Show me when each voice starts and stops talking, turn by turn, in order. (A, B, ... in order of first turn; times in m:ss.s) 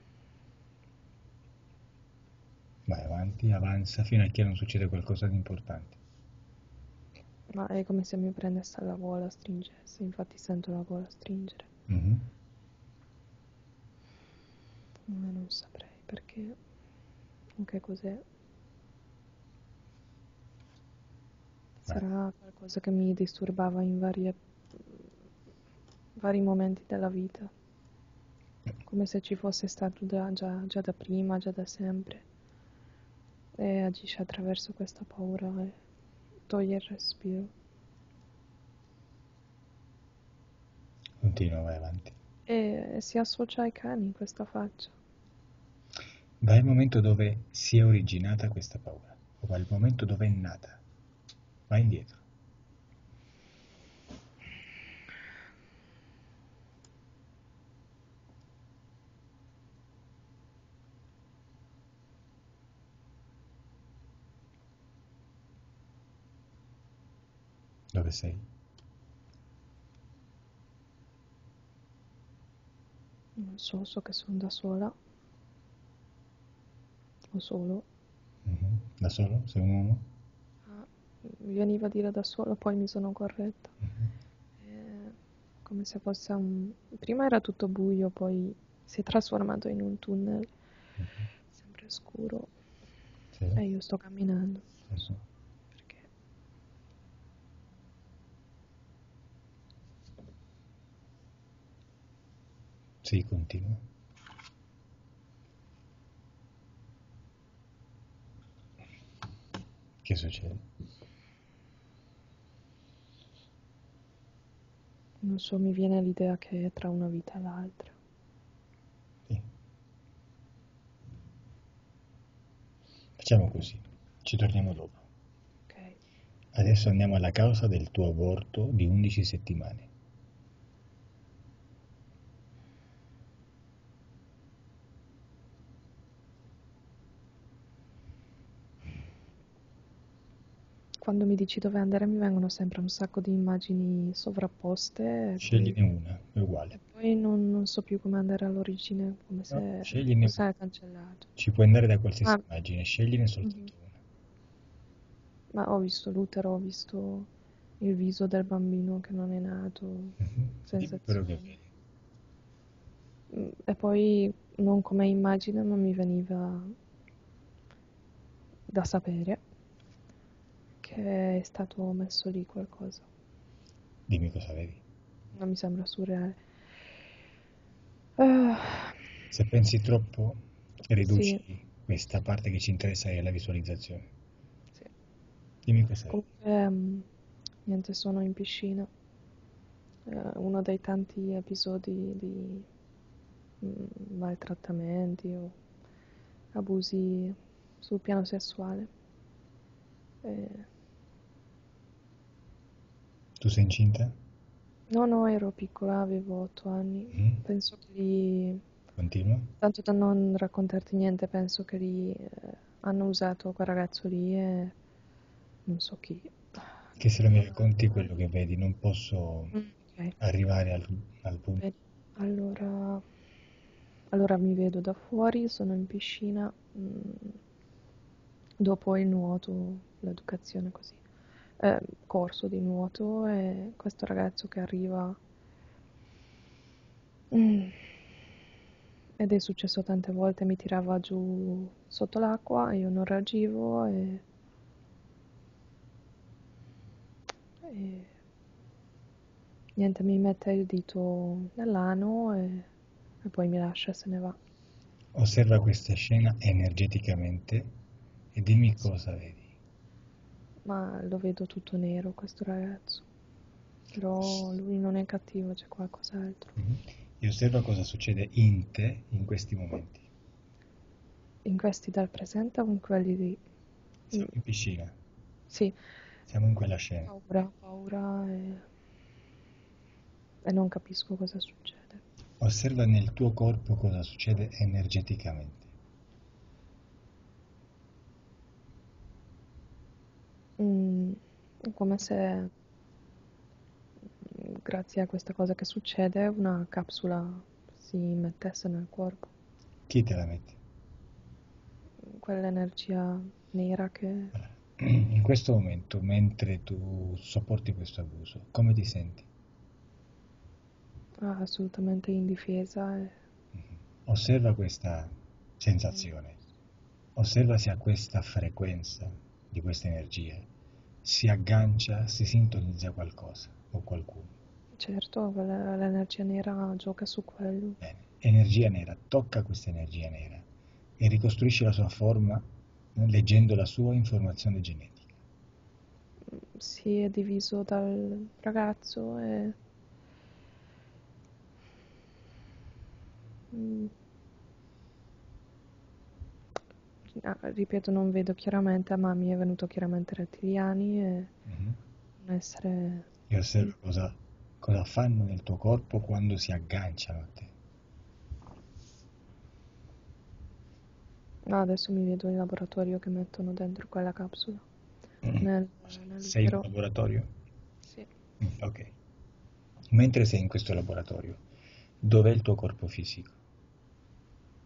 0:02.9-0:06.0 A
0:07.5-0:11.7 B
0:11.9-0:12.3 A
0:15.1-0:16.6 B
0:17.6-0:18.2 B
0:21.9-0:24.4 B
0:26.2-0:27.5 B
0:28.8-0:32.2 B
0:33.6-0:35.8 B
0:36.5-0:37.5 B
0:41.2-0:42.2 A
0:42.5-0:45.0 B
0:46.4-0:50.8 A
0:51.7-0:52.2 A
1:07.9-1:08.5 A
1:13.4-1:15.0 B
1:17.3-1:17.8 B
1:18.4-1:20.1 A
1:20.7-1:23.7 B
1:23.8-1:24.1 A
1:24.6-1:30.5 B
1:31.0-1:31.3 A
1:31.6-1:32.5 B
1:33.4-1:33.6 A
1:33.6-1:34.7 B
1:34.9-1:35.2 A
1:35.8-1:36.0 B
1:43.0-1:43.8 A
1:50.0-1:50.6 A
1:55.2-1:57.9 B
2:03.2-2:05.0 A
2:05.7-2:06.0 B
2:06.5-2:09.9 A
2:21.0-2:25.8 B
2:25.4-2:26.8 A
2:26.8-2:31.3 B
2:29.5-2:30.4 A
2:31.4-2:34.0 A
2:33.4-2:33.7 B
2:35.5-2:37.3 B
2:37.8-2:41.5 B
2:40.2-2:41.7 A
2:43.3-2:46.8 B
2:48.7-2:49.4 B
2:50.8-2:53.1 B
2:54.1-2:54.8 A
2:55.4-2:56.4 B
2:58.2-2:59.0 B
2:59.3-3:04.1 A
3:01.0-3:01.4 B
3:05.6-3:06.2 A
3:06.1-3:07.1 B
3:07.7-3:08.9 B
3:10.1-3:12.7 B
3:13.6-3:15.6 B
3:16.6-3:18.9 B
3:20.2-3:20.7 B
3:23.4-3:24.2 A
3:24.9-3:28.6 B
3:27.1-3:27.4 A
3:29.0-3:29.5 A
3:29.6-3:34.8 B
3:35.7-3:36.3 B
3:37.0-3:39.6 A
3:39.5-3:40.1 B
3:40.2-3:41.6 A
3:41.6-3:43.0 B
3:44.1-3:47.4 B
3:48.6-3:51.0 B
3:51.6-3:55.2 B
3:57.3-3:57.8 B
3:59.2-4:04.2 B
4:07.7-4:08.1 B
4:09.8-4:12.7 B
4:13.2-4:14.4 B
4:15.2-4:17.7 A
4:18.3-4:19.5 A
4:20.7-4:23.1 B
4:23.9-4:26.5 B
4:26.6-4:30.1 A
4:31.4-4:33.4 B
4:34.1-4:35.0 A
4:35.5-4:35.8 B
4:36.3-4:37.1 A
4:37.1-4:38.7 B
4:40.4-4:42.0 B
4:42.4-4:45.7 A
4:50.6-4:52.5 B
4:54.3-4:59.3 B
4:59.9-5:00.6 A
5:02.1-5:04.4 B
5:04.4-5:09.3 A
5:11.2-5:13.2 B
5:14.0-5:16.4 A
5:17.2-5:20.5 A
5:21.0-5:24.4 A
5:24.8-5:27.8 B
5:27.8-5:30.5 A
5:31.0-5:35.2 A
5:36.4-5:39.6 B
5:43.5-5:43.9 B
5:47.2-5:51.3 B
5:51.5-5:51.8 A
5:52.2-5:53.1 B
5:53.3-5:57.5 A
6:01.5-6:04.6 B
6:05.3-6:06.7 B
6:06.2-6:07.3 A
6:08.4-6:08.9 A
6:09.9-6:11.4 A
6:12.0-6:13.4 A